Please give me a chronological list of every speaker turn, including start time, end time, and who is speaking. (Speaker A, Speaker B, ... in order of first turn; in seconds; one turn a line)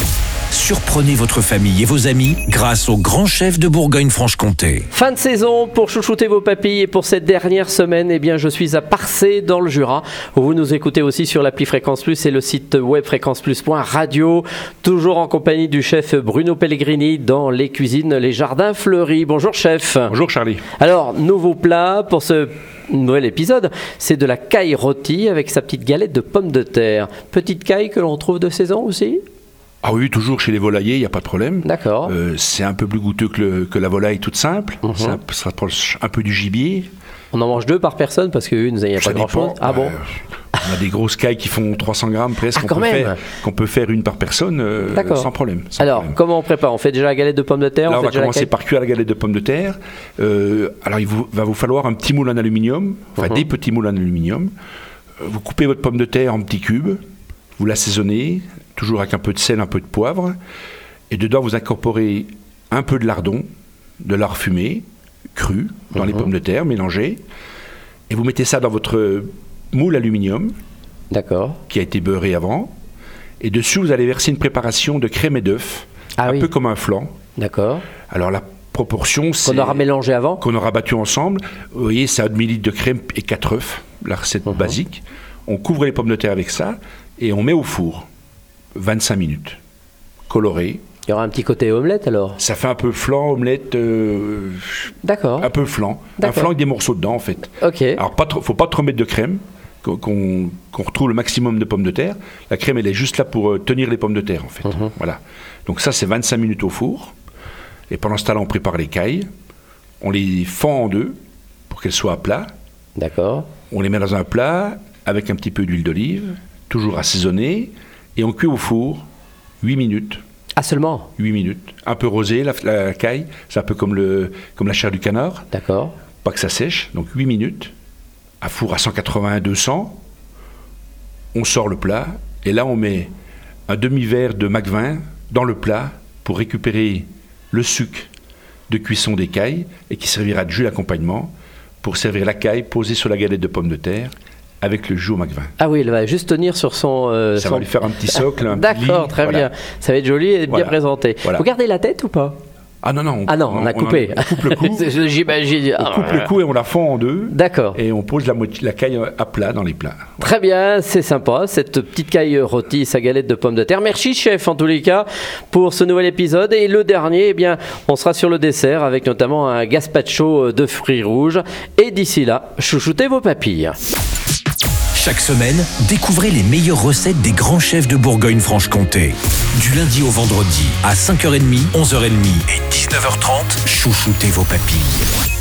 Speaker A: 0.5-4.9
Speaker B: 4.9-20.1
Speaker C: 20.1-20.6
Speaker B: 20.8-29.2
Speaker C: 29.8-36.9
Speaker B: 31.6-32.1
Speaker B: 34.8-35.2
Speaker B: 37.3-40.0
Speaker C: 39.0-46.2
Speaker B: 42.5-43.2
Speaker B: 44.9-48.5
Speaker C: 47.9-54.5
Speaker C: 55.2-57.0
Speaker C: 57.6-60.3
Speaker C: 61.1-63.4
Speaker C: 64.0-67.2
Speaker B: 66.0-66.2
Speaker C: 68.1-70.5
Speaker B: 71.1-71.6
Speaker C: 71.7-72.7
Speaker C: 73.4-77.1
Speaker B: 76.2-76.5
Speaker B: 77.3-77.8
Speaker C: 78.1-79.8
Speaker B: 79.4-80.4
Speaker C: 80.4-88.0
Speaker B: 84.5-84.8
Speaker C: 88.7-89.6
Speaker C: 90.3-90.8
Speaker B: 91.0-92.4
Speaker C: 92.4-107.1
Speaker B: 95.0-95.5
Speaker B: 96.2-96.5
Speaker B: 97.6-98.0
Speaker C: 107.9-109.3
Speaker C: 110.0-111.1
Speaker C: 111.7-112.5
Speaker B: 113.0-113.5
Speaker C: 113.7-119.0
Speaker C: 119.6-120.2
Speaker B: 120.6-121.1
Speaker C: 121.2-125.5
Speaker B: 125.5-125.9
Speaker C: 126.2-127.7
Speaker C: 128.4-130.0
Speaker C: 131.3-133.1
Speaker C: 133.7-138.1
Speaker C: 138.7-141.3
Speaker C: 141.8-145.5
Speaker B: 145.6-152.4
Speaker C: 147.3-149.5
Speaker C: 150.5-151.4
Speaker C: 152.8-154.9
Speaker B: 153.3-156.3
Speaker C: 155.8-160.3
Speaker B: 157.3-157.8
Speaker B: 160.2-173.8
Speaker A: 174.9-185.0